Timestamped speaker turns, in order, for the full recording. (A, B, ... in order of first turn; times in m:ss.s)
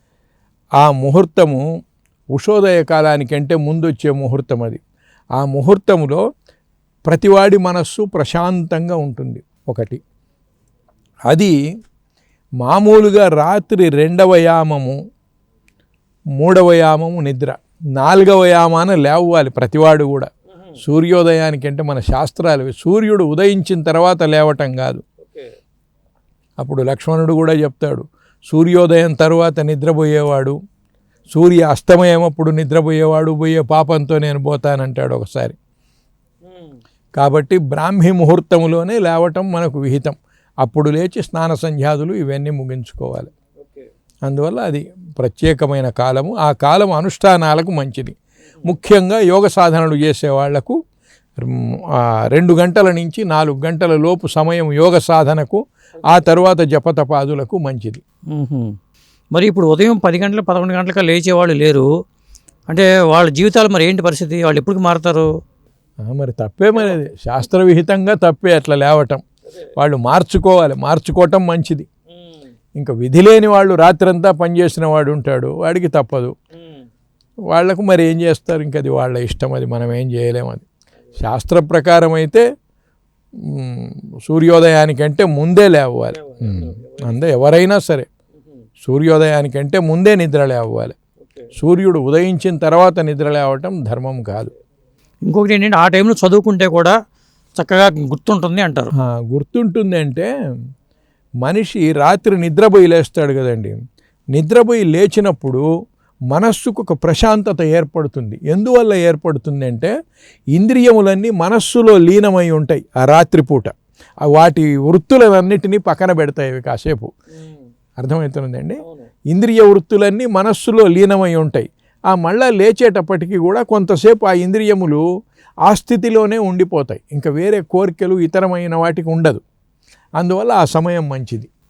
0:00.8-0:01.6 A
0:02.3-0:04.8 A
0:05.4-0:06.2 A
0:07.1-0:10.0 A
0:11.3-0:11.5 A
0:12.6-0:15.0 A
0:16.4-0:20.3 A
0:20.8-0:25.0 A
0:25.2-0:25.5 B
0:26.6-0:30.6 A
0:31.3-0:35.6 A
0:36.5-0:36.8 B
0:37.2-0:43.3 A
0:43.6-0:43.9 B
0:44.3-0:50.8 A
0:51.4-0:58.0 A
0:58.3-0:58.8 B
0:59.3-1:01.9 B
1:02.7-1:05.3 B
1:06.0-1:09.2 A
1:09.8-1:11.9 A
1:12.1-1:12.5 B
1:12.8-1:16.3 A
1:16.6-1:16.8 B
1:17.5-1:20.6 A
1:21.2-1:22.4 A
1:23.5-1:28.1 A
1:26.1-1:27.2 B
1:28.8-1:30.9 A
1:31.2-1:31.5 B
1:31.6-1:34.5 A
1:35.2-1:36.9 B
1:37.6-1:38.9 B
1:39.0-1:40.3 A
1:41.4-1:43.7 A
1:44.3-1:45.6 A
1:46.3-1:49.9 A
1:50.5-1:53.7 A
1:54.2-1:57.1 A
1:58.0-2:05.0 A
1:58.8-1:59.1 B
2:05.7-2:09.4 A
2:10.2-2:11.5 A